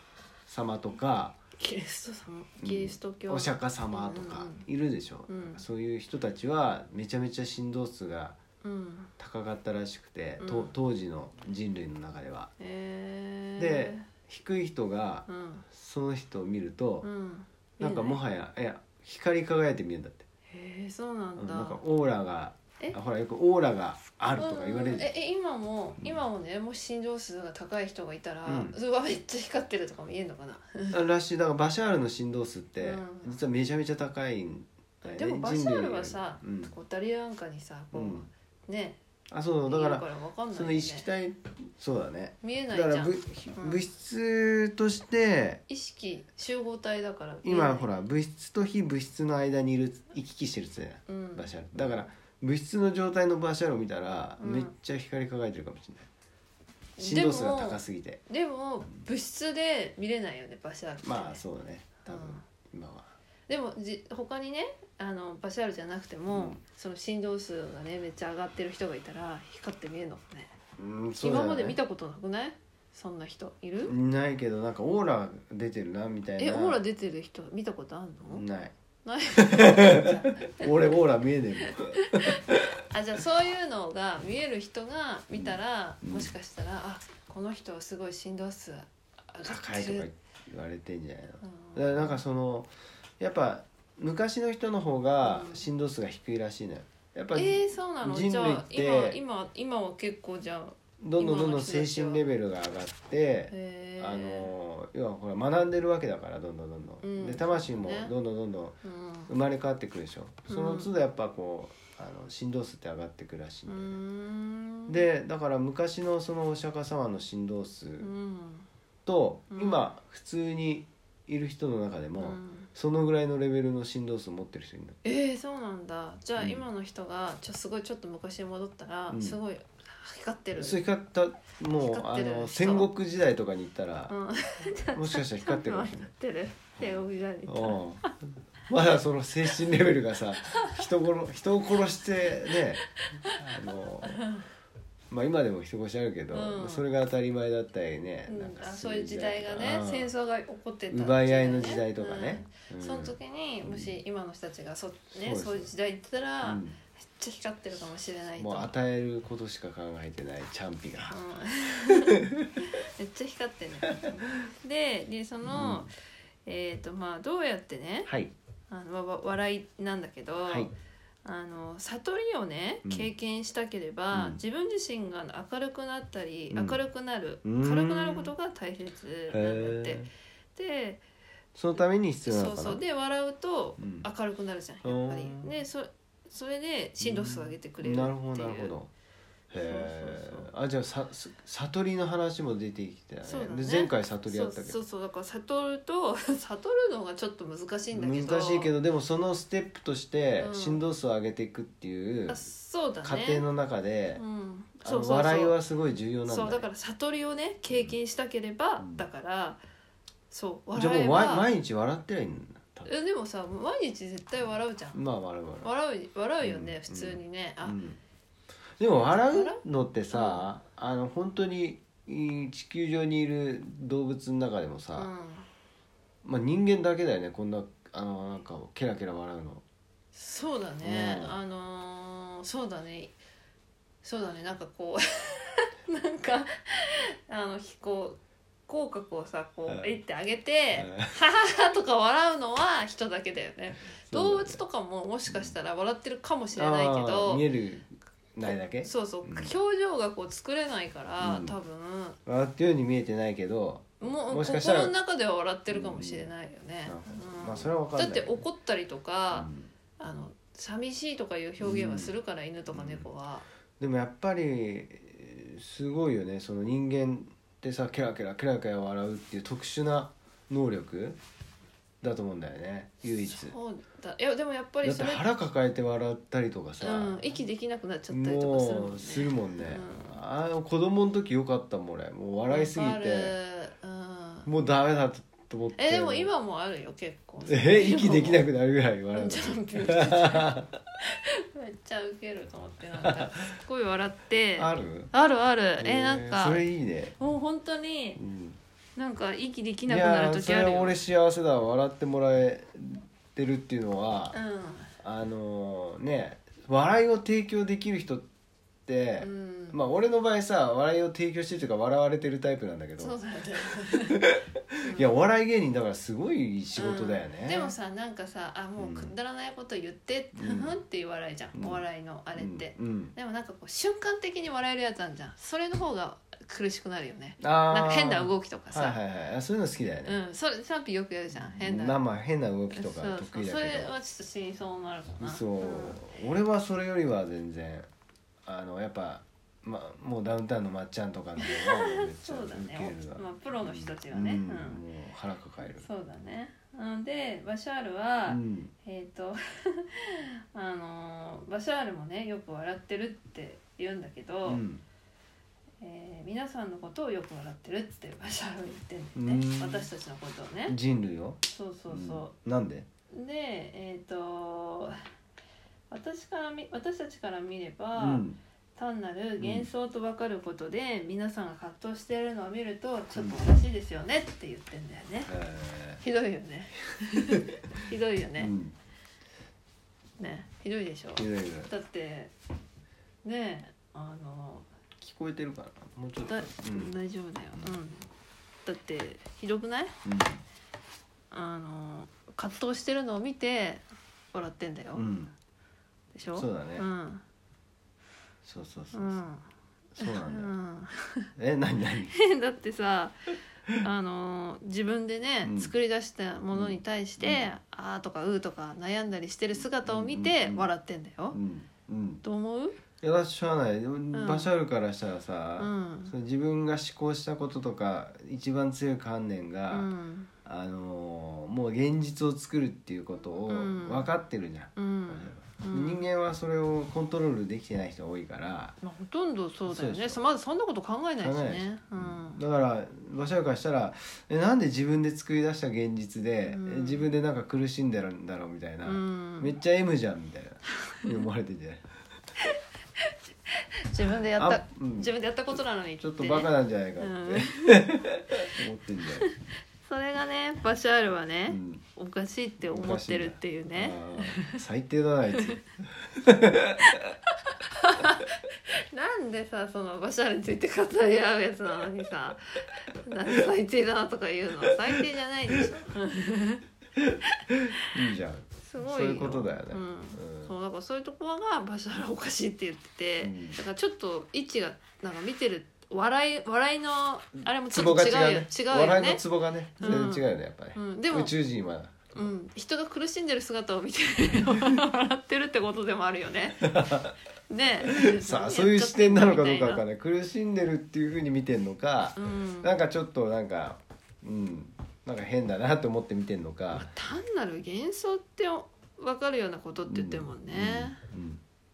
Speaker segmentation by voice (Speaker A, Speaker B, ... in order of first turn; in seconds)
Speaker A: 0.5-1.4, 2.6-8.4, 9.2-12.5, 13.6-17.1, 17.8-20.2, 21.4-25.1, 28.4-28.8, 30.9-36.7, 37.9-38.3, 39.3-45.6, 47.4-56.1, 57.0-58.2, 61.0-63.1, 66.3-66.6, 70.8-71.8, 73.8-76.8, 78.3-78.7, 79.3-82.6, 85.3-86.3, 89.4-99.2, 101.0-114.0, 114.9-118.1, 119.0-125.0, 126.4-126.7, 129.1-129.4, 130.6-134.1, 134.9-136.1, 136.8-138.2, 138.7-144.2, 145.1-150.1, 150.9-153.9, 155.2-155.7, 156.4-156.8, 158.4-161.2, 165.4-165.9, 168.1-168.3, 170.5-170.7, 172.8-173.1, 174.1-174.4, 176.5-176.8, 177.4-178.3, 179.3-180.1, 181.5-182.8, 183.8-184.1, 184.8-185.6, 187.0-188.9, 189.5-194.8, 197.9-202.5, 203.0-204.2, 204.8-206.7, 208.8-209.0, 210.7-212.9, 214.9-215.7, 216.4-218.0, 218.8-225.1, 226.2-229.6, 230.8-231.4, 240.8-241.2, 244.1-244.6, 245.3-245.5, 246.5-249.5, 251.2-251.6, 252.2-254.9, 255.7-256.3, 256.9-258.4, 259.3-259.7, 261.6-262.1, 262.7-263.1, 263.8-271.2, 272.0-273.6, 274.8-277.2, 278.1-283.4, 284.4-286.3, 287.5-290.8, 293.0-293.5, 294.6-295.1, 295.8-297.1, 298.2-298.6, 299.9-304.4, 305.0-308.3, 308.9-313.2, 313.9-317.7, 318.8-319.1, 320.3-320.8, 321.5-321.8, 322.4-323.1, 327.4-330.2, 331.3-333.9, 335.2-337.9, 338.4-345.9, 348.3-348.7, 354.4-354.8, 359.1-359.9, 360.7-362.9, 368.0-368.4, 369.4-369.7, 373.1-373.4, 375.2-376.0, 377.3-377.5, 378.4-378.8, 381.1-381.7, 385.0-386.9, 390.0-390.4, 394.9-395.3, 396.3-396.9, 398.4-399.3, 399.9-400.5, 401.4-402.2, 405.4-405.7, 406.5-407.5, 409.8-410.7, 411.3-412.2, 413.0-419.9, 420.4-428.8, 429.7-430.2, 431.2-441.8, 444.3-449.3, 451.5-451.8, 452.6-456.9, 467.0-470.5, 473.2-473.6, 477.4-482.1, 486.6-487.1, 487.9-496.9, 499.9-501.4
Speaker B: 1.6-4.7, 5.3-5.6, 8.6-9.1, 10.4-10.7, 12.6-14.1, 15.3-15.7, 17.0-18.2, 20.5-21.8, 24.4-31.0, 32.8-33.4, 35.0-39.0, 39.6-41.1, 42.4-43.9, 45.7-47.9, 51.1-51.6, 54.4-54.7, 57.0-61.4, 62.1-62.4, 63.5-70.5, 71.2-73.9, 76.4-78.4, 79.0-80.9, 81.6-90.1, 91.4-92.2, 95.2-95.7, 97.3-102.3, 103.5-104.5, 107.0-108.1, 108.8-109.3, 110.5-110.9, 113.7-115.0, 118.0-118.7, 119.5-119.9, 122.2-122.7, 125.0-130.8, 131.7-132.9, 134.1-138.1, 140.5-140.8, 143.2-143.5, 144.0-144.4, 146.3-146.8, 148.3-158.7, 161.1-165.9, 166.4-168.1, 168.7-180.0, 180.5-181.0, 182.2-188.7, 189.5-190.5, 193.2-198.7, 200.4-200.8, 202.3-203.4, 204.2-205.6, 206.2-209.6, 210.3-211.5, 212.8-215.0, 215.6-217.8, 219.1-220.4, 224.9-225.5, 230.1-233.2, 234.0-247.4, 248.4-252.2, 254.0-263.4, 273.2-275.3, 276.8-280.2, 282.5-284.5, 285.8-288.4, 289.1-296.7, 297.2-298.2, 298.9-301.0, 304.3-304.9, 309.2-309.8, 313.0-314.2, 314.8-315.1, 316.8-329.0, 330.0-332.0, 332.7-336.0, 341.4-344.8, 345.8-354.6, 355.8-360.8, 361.4-362.3, 363.1-365.0, 365.9-368.2, 368.8-375.3, 376.0-378.5, 380.2-382.3, 383.2-384.7, 386.2-388.1, 388.6-389.9, 391.3-395.1, 396.1-397.2, 398.9-399.4, 400.0-401.3, 402.1-411.4, 412.2-412.8, 414.1-414.5, 415.6-416.1, 419.7-420.3, 423.5-424.1, 424.7-426.0, 428.8-432.4, 436.4-437.1, 438.8-439.6, 443.9-448.0, 449.2-454.6, 456.8-457.1, 457.6-462.4, 463.0-466.6, 467.3-467.9, 468.6-479.2, 479.8-481.3, 482.1-487.0, 487.5-489.8, 492.1-492.7, 496.7-501.0